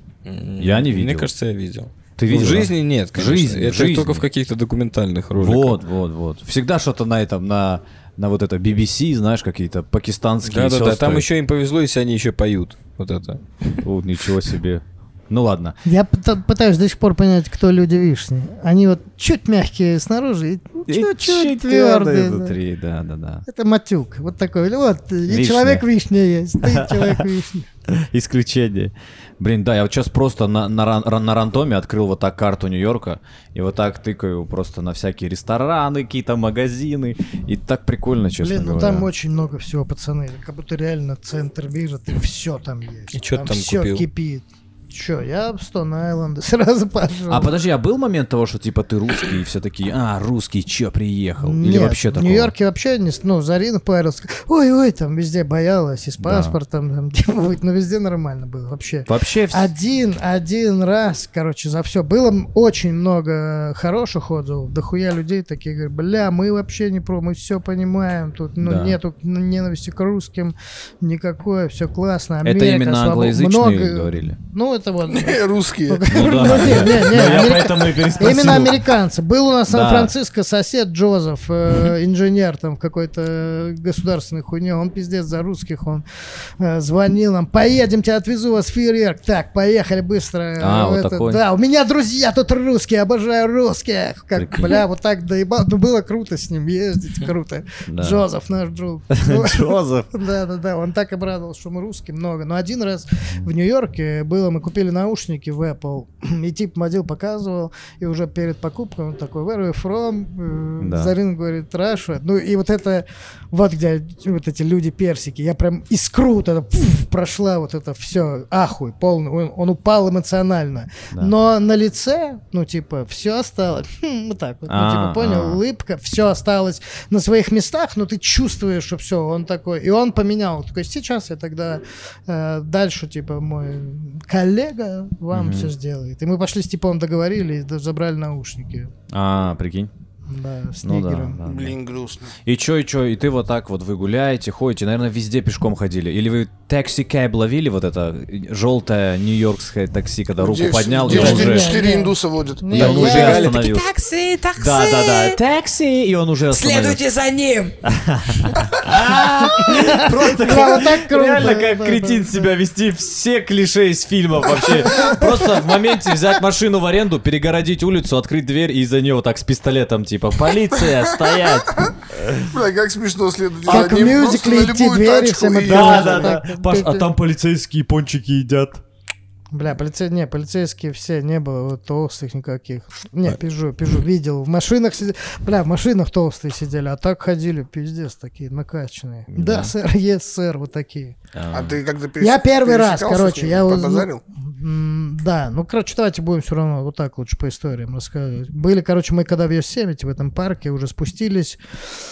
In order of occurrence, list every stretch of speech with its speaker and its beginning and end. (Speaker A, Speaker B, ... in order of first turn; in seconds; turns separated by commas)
Speaker A: 0.2-5.8, Speaker B: 0.6-1.3, Speaker B: 2.2-4.3, Speaker B: 5.3-11.3, Speaker A: 10.4-13.8, Speaker B: 13.8-15.8, Speaker C: 15.8-22.6, Speaker B: 20.9-23.4, Speaker C: 23.5-27.7, Speaker B: 25.3-25.9, Speaker B: 26.6-27.2, Speaker B: 27.9-39.1, Speaker C: 38.4-47.5, Speaker A: 43.1-44.0, Speaker B: 47.3-52.5, Speaker C: 51.4-86.0, Speaker B: 56.2-56.6, Speaker B: 59.1-59.7, Speaker B: 68.6-69.0, Speaker B: 72.4-74.4, Speaker D: 75.1-76.3, Speaker B: 76.1-78.9, Speaker B: 79.7-80.1, Speaker C: 86.6-138.9, Speaker B: 90.6-91.4, Speaker B: 94.4-94.8, Speaker B: 97.9-98.2, Speaker B: 99.1-100.1, Speaker B: 110.8-111.1, Speaker B: 124.7-125.6, Speaker B: 135.3-135.7, Speaker B: 139.1-139.9, Speaker C: 140.3-141.4, Speaker B: 140.8-141.8, Speaker D: 141.4-142.3, Speaker B: 142.4-151.8, Speaker D: 150.4-153.0, Speaker C: 151.1-153.5, Speaker A: 151.1-151.4, Speaker B: 152.7-153.9, Speaker A: 152.8-153.6, Speaker E: 152.9-155.4, Speaker B: 154.6-157.0, Speaker E: 156.5-157.8, Speaker B: 157.9-172.5, Speaker C: 159.6-162.5, Speaker C: 164.8-165.3, Speaker D: 172.5-176.3, Speaker B: 173.7-174.2, Speaker C: 173.7-177.1, Speaker B: 175.7-178.8, Speaker C: 179.5-191.2, Speaker B: 189.3-189.7, Speaker B: 191.3-191.8, Speaker D: 191.5-194.2, Speaker C: 192.2-201.6